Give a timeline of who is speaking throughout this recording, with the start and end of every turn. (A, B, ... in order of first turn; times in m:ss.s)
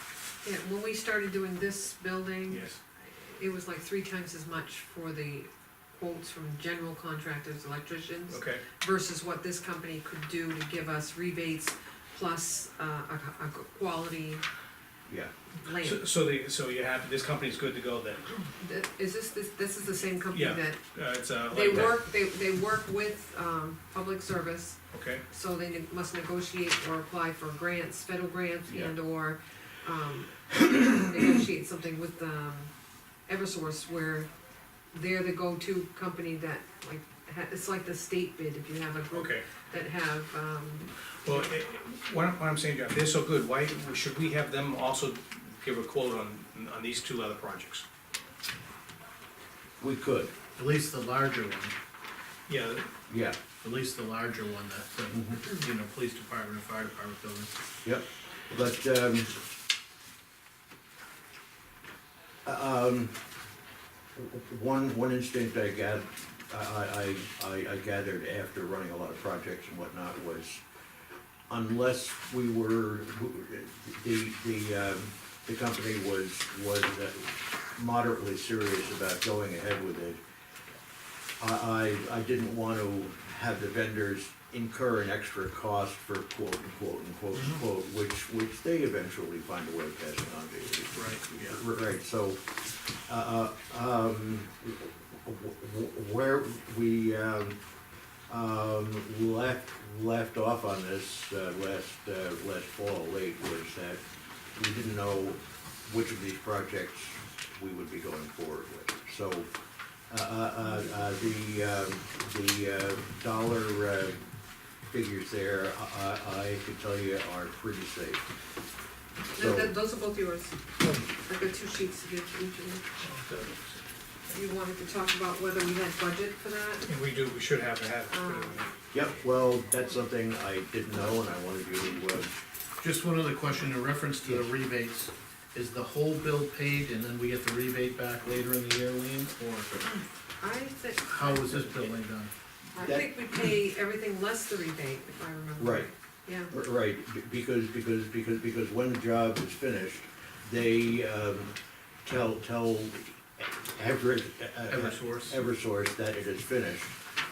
0:00.4-0:14.4 A
0:02.5-0:02.8 B
0:08.3-0:08.6 B
0:15.1-0:15.3 C
0:15.6-0:16.1 A
0:15.8-0:18.4 B
0:18.6-0:20.8 A
0:20.3-0:22.0 B
0:21.5-0:24.8 A
0:24.9-0:25.2 B
0:25.3-0:32.7 A
0:28.7-0:28.9 C
0:33.3-0:34.3 A
0:34.9-0:41.4 A
0:39.1-0:39.4 B
0:41.2-0:47.8 B
0:49.8-0:50.3 C
0:50.6-0:51.7 D
0:52.5-0:52.9 B
0:53.1-0:53.4 C
0:53.6-0:57.5 D
0:55.1-0:55.4 C
0:57.8-0:59.3 C
1:02.4-1:03.1 C
1:04.2-1:10.6 C
1:11.5-1:20.2 C
1:21.4-1:37.6 C
1:38.3-1:44.0 C
1:44.6-1:49.5 C
1:50.1-1:54.2 C
1:54.9-1:58.2 C
1:59.4-2:00.6 A
1:59.4-1:59.7 C
2:01.2-2:02.8 A
2:03.0-2:03.8 B
2:04.3-2:06.9 A
2:06.9-2:08.7 B
2:08.1-2:08.6 A
2:08.9-2:12.3 C
2:12.8-2:19.8 D
2:20.4-2:21.8 A
2:21.1-2:22.3 D
2:22.7-2:26.5 A
2:22.8-2:23.1 C
2:25.6-2:25.9 C
2:26.5-2:31.5 C
2:32.0-2:37.0 C
2:34.7-2:35.4 D